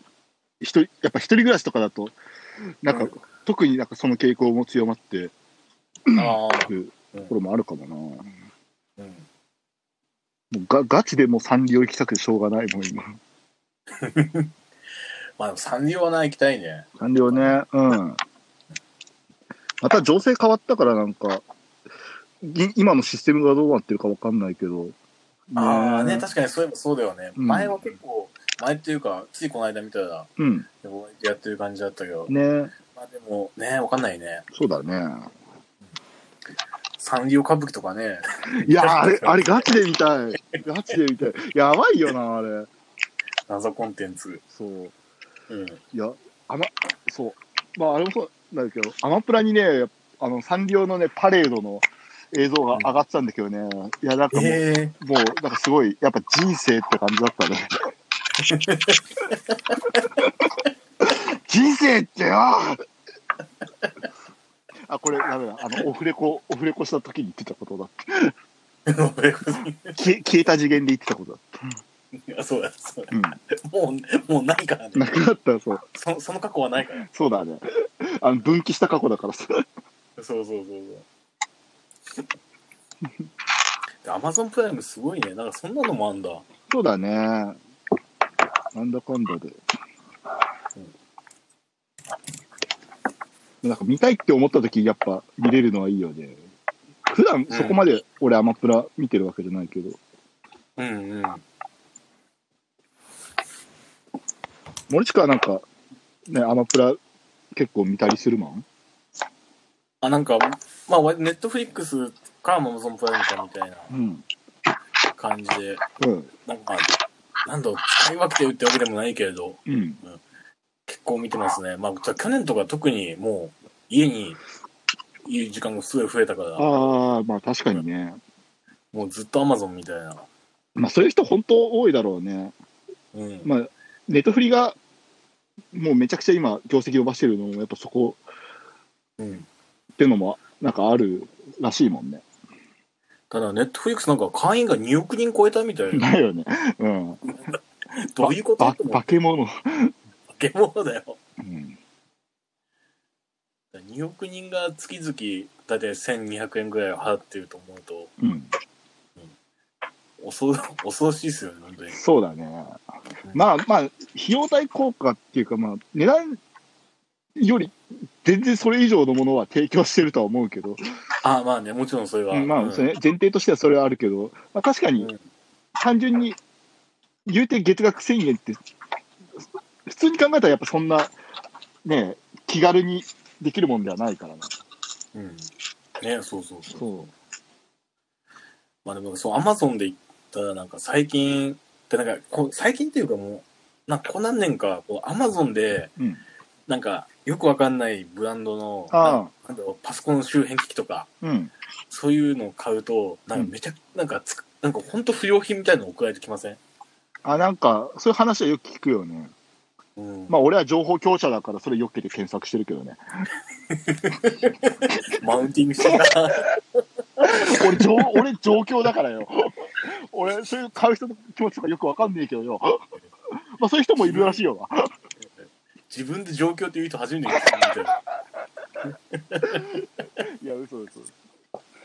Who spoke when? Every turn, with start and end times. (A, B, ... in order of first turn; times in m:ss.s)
0:00.6-0:02.2 A
0:02.8-0:05.3 A
0:02.9-0:03.1 B
0:06.1-0:08.3 A
0:06.1-0:07.3 B
0:09.0-0:09.2 B
0:10.5-0:13.2 A
0:14.0-0:14.5 B
0:15.4-0:17.6 B
0:17.0-0:18.2 A
0:19.8-0:21.4 A
0:22.4-0:24.9 A
0:25.5-0:26.2 A
0:25.5-0:30.3 B
0:27.4-0:27.8 A
0:30.4-0:30.7 A
0:30.8-0:32.3 B
0:32.3-0:32.7 A
0:32.8-0:34.4 B
0:34.5-0:35.3 A
0:37.0-0:39.7 B
0:38.6-0:42.7 A
0:43.5-0:44.4 B
0:44.5-0:44.9 A
0:45.5-0:45.8 B
0:45.9-0:57.8 A
0:54.3-0:54.9 B
0:58.4-1:00.1 B
1:01.0-1:02.8 A
1:04.9-1:08.3 A
1:08.8-1:10.0 B
1:10.0-1:11.7 A
1:12.1-1:15.2 B
1:13.1-1:13.4 A
1:14.9-1:15.8 A
1:15.9-1:17.1 B
1:17.0-1:19.6 A
1:20.2-1:21.0 B
1:24.0-1:26.4 B
1:26.7-1:27.6 A
1:28.7-1:29.6 A
1:33.6-1:36.4 A
1:37.1-1:40.0 A
1:37.5-1:37.8 B
1:40.8-1:41.4 B
1:44.9-1:45.6 A
1:46.3-1:47.0 A
1:47.5-1:48.6 A
1:50.0-1:53.9 B
1:53.9-1:54.2 A
1:55.1-1:55.8 B
1:56.0-1:56.3 A
1:56.4-2:00.2 B
1:59.6-2:00.0 A
2:00.9-2:04.4 B
2:05.2-2:06.9 B
2:06.6-2:08.2 A
2:08.9-2:10.3 B
2:10.8-2:12.5 A
2:13.1-2:13.5 B
2:13.4-2:14.8 A
2:15.7-2:18.2 A
2:19.2-2:19.5 B
2:20.0-2:22.2 A
2:23.3-2:26.1 B
2:25.9-2:27.2 A
2:27.3-2:29.1 B
2:28.2-2:29.9 A
2:30.3-2:31.2 B
2:31.4-2:31.8 A
2:33.7-2:38.1 B
2:38.2-2:38.5 A
2:40.2-2:42.0 B
2:41.9-2:42.8 A
2:43.3-2:46.4 A
2:47.4-2:50.8 A
2:51.2-2:52.9 B
2:52.3-2:55.1 A
2:55.0-2:55.2 B
2:55.8-2:56.4 A
2:57.2-2:58.6 A
2:59.8-3:01.1 A
3:01.8-3:04.5 A
3:05.1-3:06.8 B
3:06.7-3:07.1 A
3:08.8-3:15.9 B
3:16.7-3:21.1 B
3:18.9-3:19.3 A
3:21.2-3:21.5 A
3:21.9-3:26.6 B
3:27.2-3:29.3 A
3:30.0-3:30.3 B
3:30.3-3:33.0 A
3:33.7-3:38.2 B
3:37.2-3:42.8 A
3:43.6-3:44.9 A
3:44.0-3:44.4 B
3:45.2-3:48.0 B
3:49.1-3:49.7 B
3:49.5-3:51.1 A